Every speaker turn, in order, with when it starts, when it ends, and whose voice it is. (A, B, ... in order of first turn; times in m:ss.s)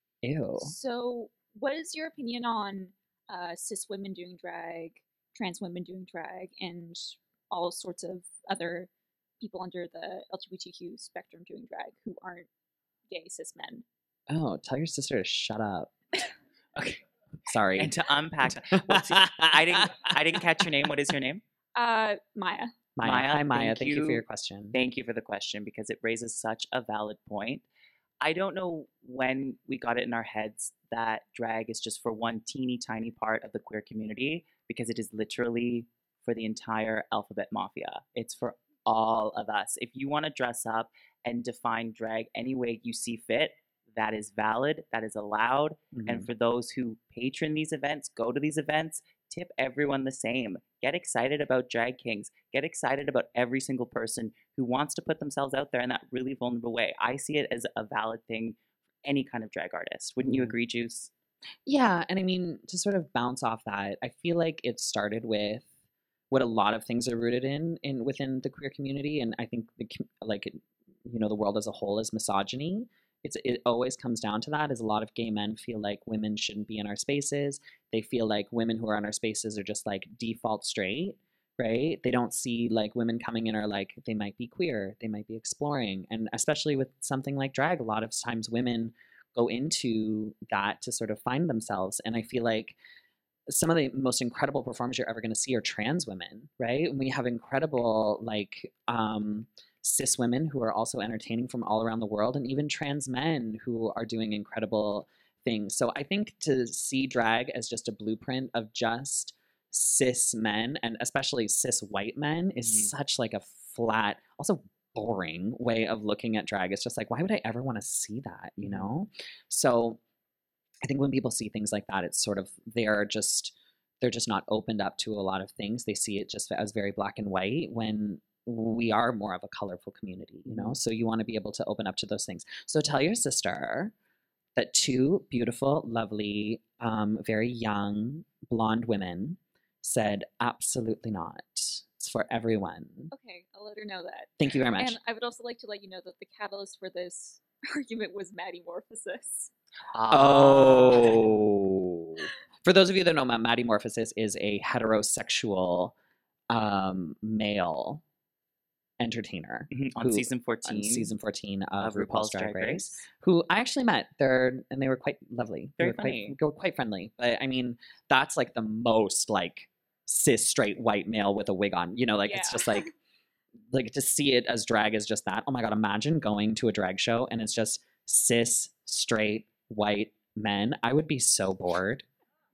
0:00.2-0:00.7 A
0:00.6-0:12.5 B
0:13.1-0:13.8 B
0:14.3-0:15.9 A
0:17.4-0:17.9 A
0:17.8-0:21.4 C
0:18.7-0:20.1 A
0:21.8-0:22.7 B
0:23.0-0:24.8 A
0:23.0-0:27.6 C
0:28.2-1:01.1 C
0:45.9-0:46.3 A
1:00.2-1:00.5 A
1:01.6-1:05.7 A
1:06.3-1:32.8 A
1:33.5-2:00.0 A
1:52.6-1:52.9 C
2:00.8-2:13.9 A
2:14.6-2:23.1 A
2:23.1-2:29.5 B
2:24.4-2:25.0 A
2:29.9-2:31.3 C
2:30.1-2:35.9 A
2:36.5-2:38.0 A
2:39.0-2:52.9 A
2:39.7-2:41.1 C
2:41.8-2:43.0 C
2:45.8-2:46.4 C
2:52.3-2:52.8 B
2:53.7-3:02.0 A